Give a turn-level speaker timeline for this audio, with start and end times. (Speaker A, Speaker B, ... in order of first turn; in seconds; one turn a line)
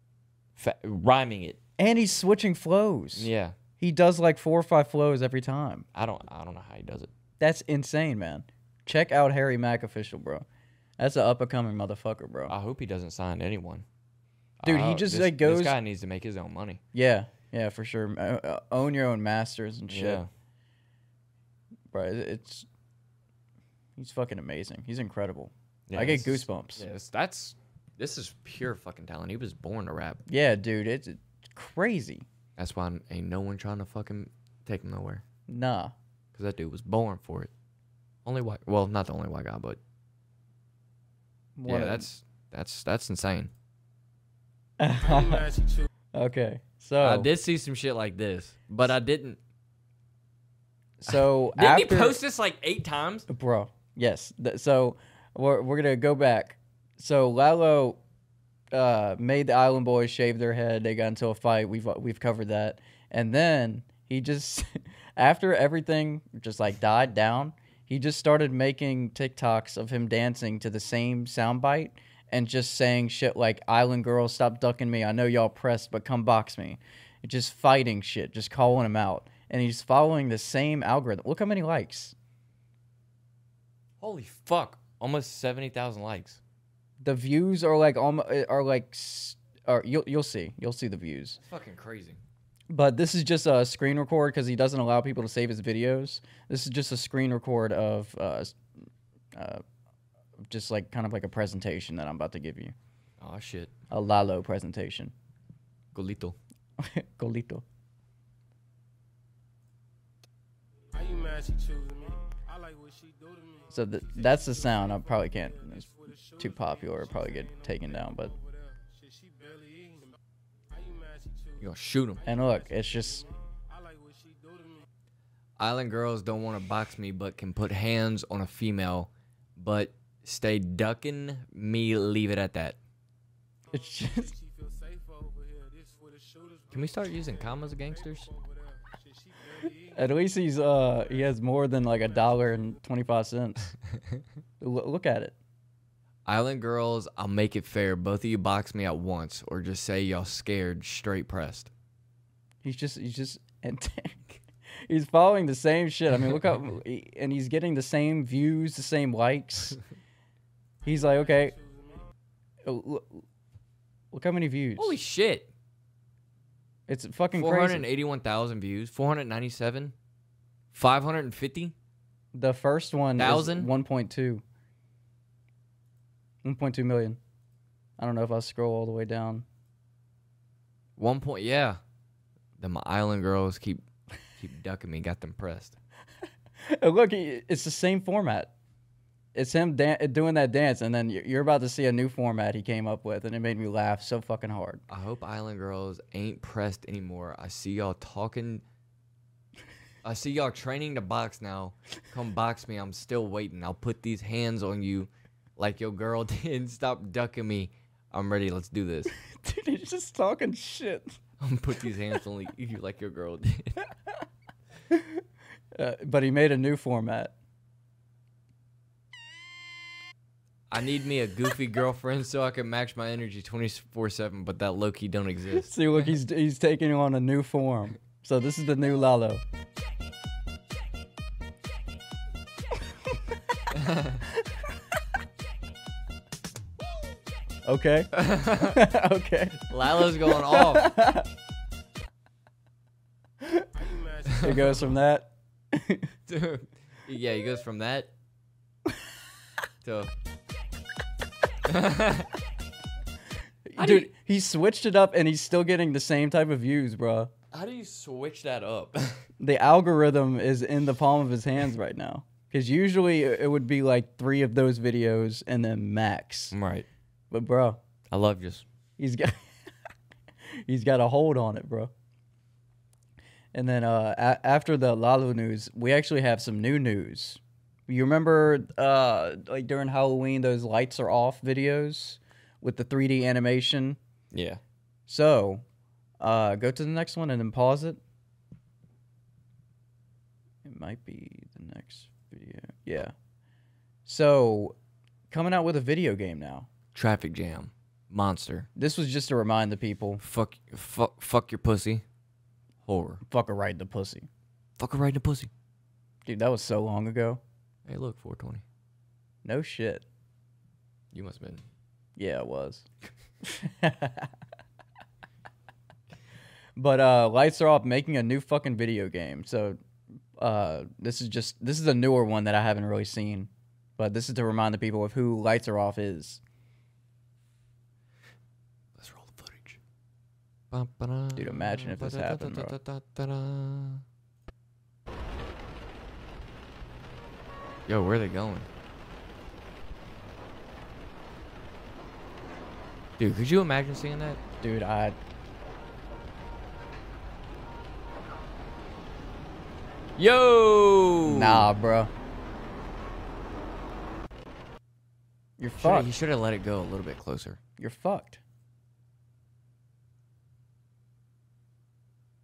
Speaker A: 0.6-1.6
Speaker B: 1.8-5.9
Speaker A: 3.1-3.5
Speaker A: 5.9-7.1
Speaker B: 7.4-10.4
Speaker B: 11.0-12.5
Speaker A: 12.5-13.8
Speaker A: 14.6-16.8
Speaker B: 14.6-15.8
Speaker B: 16.9-20.2
Speaker A: 19.9-20.3
Speaker B: 21.9-22.7
Speaker B: 24.0-26.9
Speaker A: 25.9-30.2
Speaker B: 30.3-32.3
Speaker A: 32.6-35.2
Speaker B: 35.5-36.0
Speaker A: 36.3-37.5
Speaker A: 38.2-39.8
Speaker B: 41.6-42.1
Speaker A: 41.7-43.5
Speaker B: 44.8-45.5
Speaker C: 45.0-45.9
Speaker B: 46.1-47.3
Speaker A: 47.0-49.4
Speaker B: 51.0-52.2
Speaker A: 51.1-53.3
Speaker B: 53.3-58.0
Speaker B: 58.7-82.2
Speaker A: 84.0-86.4
Speaker B: 87.0-91.4
Speaker A: 91.4-92.2
Speaker B: 92.7-98.6
Speaker B: 99.3-99.6
Speaker B: 100.5-102.8
Speaker A: 103.2-103.7
Speaker B: 103.9-105.1
Speaker A: 105.9-106.4
Speaker B: 106.8-107.7
Speaker C: 110.9-120.2
Speaker B: 113.7-118.3
Speaker C: 120.7-124.8
Speaker A: 121.6-122.2
Speaker B: 122.2-123.2
Speaker A: 125.6-132.8
Speaker B: 133.7-134.3
Speaker C: 133.7-140.2
Speaker A: 136.7-138.3
Speaker B: 140.0-143.7
Speaker C: 140.8-142.8
Speaker B: 144.6-145.3
Speaker A: 146.3-151.7
Speaker B: 152.6-154.2
Speaker B: 154.9-159.8
Speaker B: 160.8-161.5
Speaker C: 160.8-162.1
Speaker B: 162.7-163.2
Speaker B: 164.1-165.0
Speaker A: 164.8-165.5
Speaker B: 166.9-167.9
Speaker A: 167.3-169.9
Speaker A: 170.7-171.7
Speaker B: 172.3-174.4
Speaker A: 173.2-173.7
Speaker B: 176.4-177.2
Speaker B: 178.0-179.4
Speaker A: 181.0-181.8
Speaker A: 182.6-183.9
Speaker A: 184.4-185.8
Speaker B: 186.7-188.5
Speaker B: 189.3-194.8
Speaker A: 194.9-198.6
Speaker A: 200.0-209.1
Speaker B: 209.1-211.2
Speaker A: 211.4-213.8
Speaker B: 214.9-215.2
Speaker B: 215.8-217.3
Speaker A: 220.7-226.0
Speaker B: 225.5-229.4
Speaker A: 233.7-234.2
Speaker B: 237.7-241.3
Speaker A: 238.1-238.9
Speaker A: 239.6-240.9
Speaker C: 243.8-244.9
Speaker A: 244.3-244.8
Speaker B: 244.4-246.1
Speaker A: 246.3-248.1
Speaker A: 249.8-250.1
Speaker A: 251.7-252.3
Speaker B: 253.7-257.3
Speaker A: 253.8-254.1
Speaker A: 257.5-259.2
Speaker B: 259.4-266.5
Speaker A: 266.5-266.9
Speaker B: 267.3-267.8
Speaker A: 268.1-268.6
Speaker B: 269.0-269.4
Speaker B: 270.6-271.9
Speaker B: 273.5-284.0
Speaker A: 284.3-284.6
Speaker B: 285.1-285.6
Speaker B: 286.2-288.0
Speaker B: 290.6-293.1
Speaker B: 294.1-294.8
Speaker B: 295.3-296.7
Speaker A: 296.9-298.7
Speaker B: 298.8-300.2
Speaker A: 300.2-302.0
Speaker A: 302.9-303.2
Speaker B: 303.3-304.3
Speaker A: 304.8-305.5
Speaker B: 306.3-307.4
Speaker A: 307.9-308.6
Speaker B: 309.4-310.1
Speaker A: 311.1-311.6
Speaker B: 312.2-312.9
Speaker B: 313.4-314.3
Speaker B: 316.8-319.8
Speaker B: 320.4-326.4
Speaker A: 329.0-329.8
Speaker A: 330.7-334.0
Speaker B: 331.4-332.8
Speaker A: 337.9-338.7
Speaker A: 343.2-344.4
Speaker B: 344.6-345.2
Speaker A: 350.2-351.7
Speaker B: 351.3-352.1
Speaker B: 355.6-356.1
Speaker A: 355.8-357.6
Speaker B: 357.8-358.4